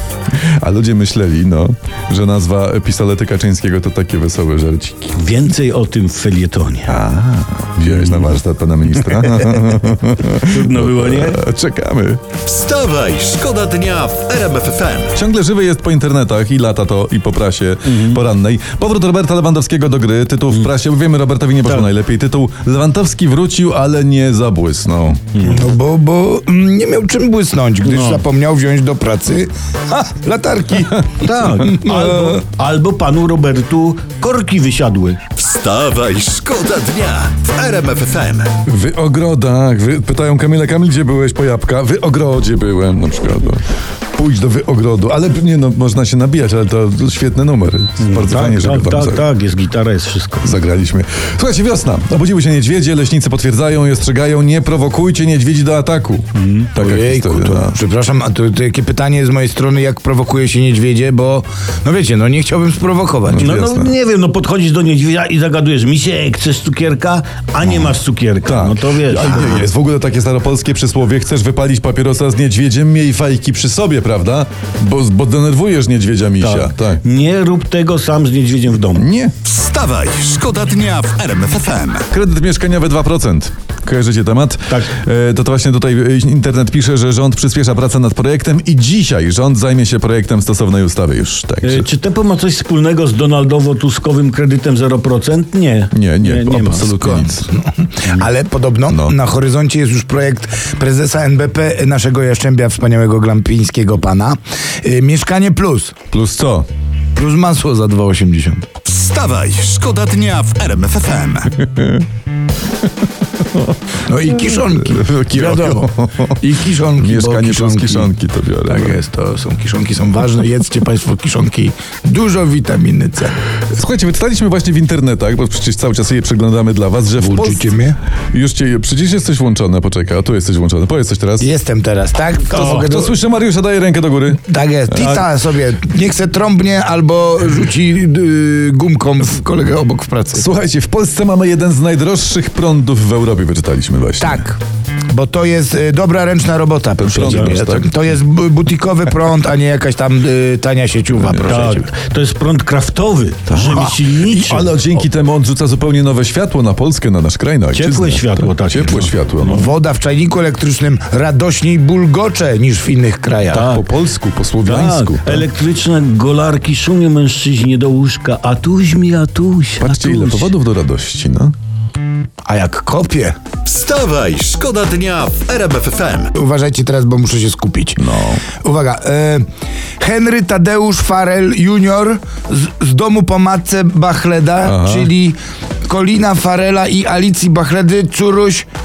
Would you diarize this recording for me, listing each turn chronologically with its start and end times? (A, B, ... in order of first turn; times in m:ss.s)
0:00.4-0:05.2 A
0:05.2-0:07.0 B
0:06.9-0:12.2 A
0:07.9-0:08.4 B
0:09.1-0:09.7 B
0:10.4-0:11.4 B
0:12.4-0:15.2 C
0:15.2-0:25.3 A
0:17.9-0:18.2 B
0:21.6-0:21.9 B
0:25.4-0:25.6 B
0:25.4-0:32.4 D
0:27.8-0:28.2 B
0:31.2-0:35.2 B
0:35.4-0:38.5 C
0:38.6-0:43.6 A
0:44.2-0:49.3 A
0:48.0-0:50.6 B
0:50.4-0:57.8 A
0:56.4-0:56.7 B
0:56.8-1:03.5 D
1:03.3-1:03.9 A
1:03.4-1:09.7 B
1:08.5-1:17.0 A
1:16.4-1:19.1 B
1:19.0-1:19.3 A
1:19.4-1:22.1 C
1:22.1-1:31.9 A
1:31.6-1:37.0 B
1:35.9-1:37.5 A
1:36.9-1:46.0 D
1:38.9-1:39.2 A
1:46.1-1:46.7 A
1:47.2-1:48.6 D
1:48.8-1:51.6 C
1:51.5-1:52.1 A
1:54.1-1:58.1 D
1:54.6-1:56.4 A
1:57.0-1:59.0 A
1:58.7-2:03.4 D
2:03.7-2:07.7 A
2:07.2-2:08.0 D
2:08.3-2:11.5 A
2:11.4-2:13.2 D
2:12.5-2:15.0 A
2:12.5-2:13.0 B
2:14.4-2:20.4 D
2:15.0-2:15.2 B
2:20.3-2:24.4 A
2:24.2-2:24.6 D
2:25.1-2:31.9 D
2:27.0-2:27.9 A
2:27.3-2:27.5 B
2:31.2-2:31.5 A
2:31.4-2:34.8 B
2:33.5-2:39.7 A
2:33.6-2:34.0 D
2:37.7-2:39.7 B
2:39.5-2:43.7 D
2:43.5-2:43.9 B
2:43.6-2:45.5 A
2:44.6-2:50.5 B
2:49.8-2:51.6 A
2:52.5-2:53.4 D
2:53.6-2:56.3 C
2:56.3-2:58.0 D
2:58.0-2:58.4 A
2:58.5-2:59.4 D
3:00.0-3:05.4 D
3:04.6-3:05.1 A
3:05.9-3:08.7 D